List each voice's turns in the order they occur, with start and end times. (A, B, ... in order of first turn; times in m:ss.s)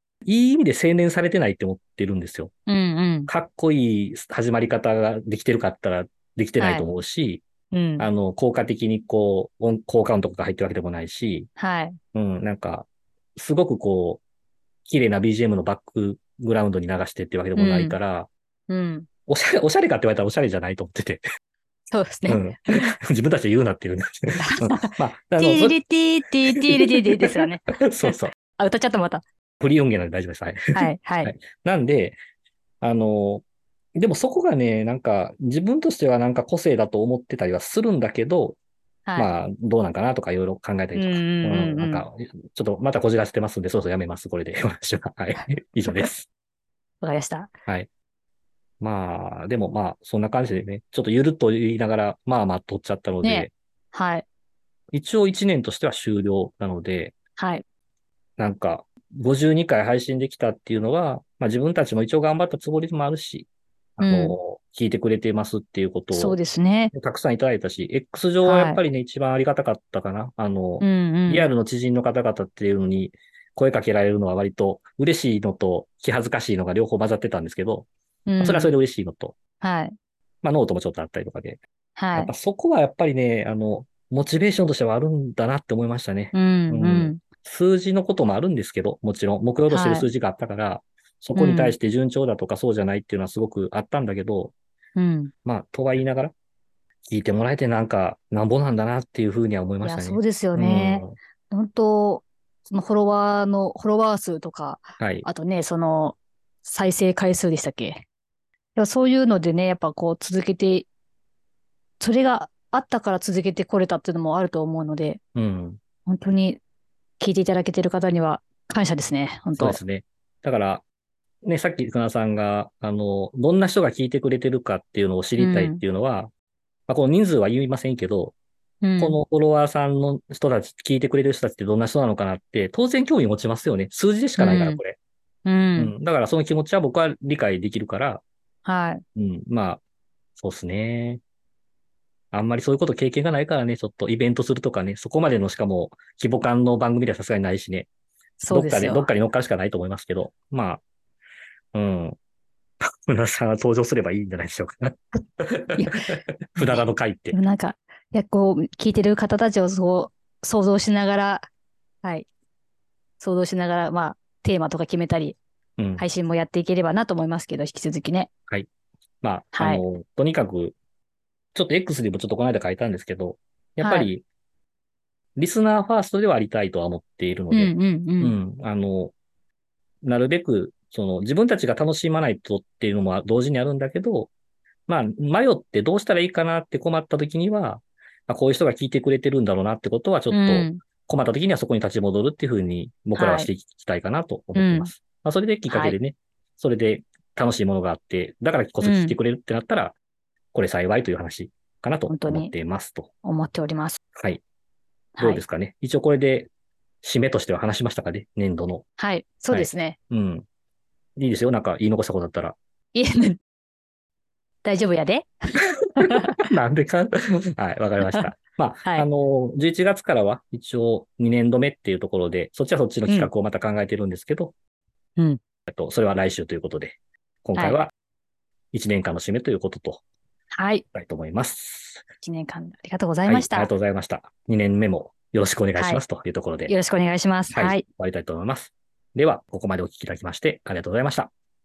0:00.2-0:02.5 A
0:02.7-0:03.3 B
0:03.3-0:07.4 A
0:06.6-0:06.9 B
0:07.7-0:08.1 B
0:08.0-0:11.5 A
0:11.6-0:12.0 B
0:12.1-0:14.2 A
0:14.8-0:18.3 A
0:17.6-0:18.0 B
0:18.7-0:19.1 B
0:19.3-0:21.2 A
0:21.9-0:23.0 B
0:22.3-0:25.8 A
0:24.4-0:29.2 B
0:26.5-0:28.3 A
0:29.6-0:32.2 A
0:30.7-0:31.3 B
0:32.8-0:33.4 A
0:33.9-0:38.6 A
0:39.2-0:46.3 A
0:40.9-0:42.0 B
0:47.0-0:47.5 B
0:48.8-0:53.5 A
0:53.2-0:54.2 B
0:54.9-0:57.1 A
0:57.4-0:57.6 B
0:58.4-1:06.4 A
1:04.0-1:04.4 B
1:06.1-1:06.9 B
1:06.9-1:17.9 A
1:08.4-1:08.8 B
1:10.8-1:11.5 B
1:18.3-1:18.7 B
1:18.4-1:19.3 A
1:19.6-1:19.9 B
1:20.4-1:21.6 A
1:22.0-1:22.3 B
1:22.1-1:34.5 A
1:26.3-1:27.2 B
1:29.7-1:30.1 B
1:31.3-1:31.8 B
1:35.0-1:35.3 B
1:35.4-1:36.3 A
1:37.0-1:41.1 A
1:39.8-1:48.0 B
1:45.0-1:45.3 A
1:48.8-1:50.9 B
1:52.0-1:55.2 B
1:55.3-1:55.8 A
1:56.0-1:56.6 B
1:57.2-1:59.8 B
1:59.6-2:00.8 A
2:01.4-2:06.3 A
2:05.4-2:05.8 B
2:06.9-2:08.3 A
2:08.8-2:09.2 B
2:09.0-2:15.0 A
2:14.4-2:14.8 B
2:15.4-2:15.9 B
2:15.8-2:18.2 A
2:18.6-2:19.0 B
2:19.1-2:19.8 A
2:20.4-2:21.2 A
2:22.3-2:27.9 A
2:28.4-2:29.1 B
2:28.5-2:30.8 A
2:31.7-2:32.2 A
2:32.8-2:37.4 A
2:35.7-2:41.5 B
2:43.2-2:45.4 B
2:45.8-2:46.0 A
2:46.0-2:48.3 B
2:49.2-2:50.8 A
2:49.5-2:49.8 B
2:51.5-2:54.2 A
2:53.8-2:54.1 B
2:55.4-2:59.1 A
2:57.5-2:58.4 B
3:00.0-3:04.3 A
3:04.9-3:20.0 A
3:10.3-3:10.8 B
3:13.1-3:13.5 B
3:14.5-3:14.9 B
3:15.7-3:16.0 B
3:18.8-3:19.2 B
3:20.5-3:23.1 A
3:22.1-3:22.5 B
3:23.2-3:24.0 B
3:24.2-3:24.4 A
3:25.2-3:25.4 B
3:25.2-3:26.5 A
3:27.0-3:28.8 A
3:29.0-3:30.0 B
3:29.5-3:30.4 A
3:31.2-3:32.6 A
3:32.9-3:33.4 B
3:34.6-3:36.4 B
3:36.0-3:44.5 A
3:38.0-3:38.3 B
3:45.7-3:47.9 A
3:48.7-3:50.0 A
3:50.5-3:50.8 B
3:50.9-3:52.0 A
3:52.2-3:53.7 B
3:53.2-3:56.7 A
3:55.8-3:56.0 B
3:56.7-3:57.8 B
3:57.5-4:01.3 A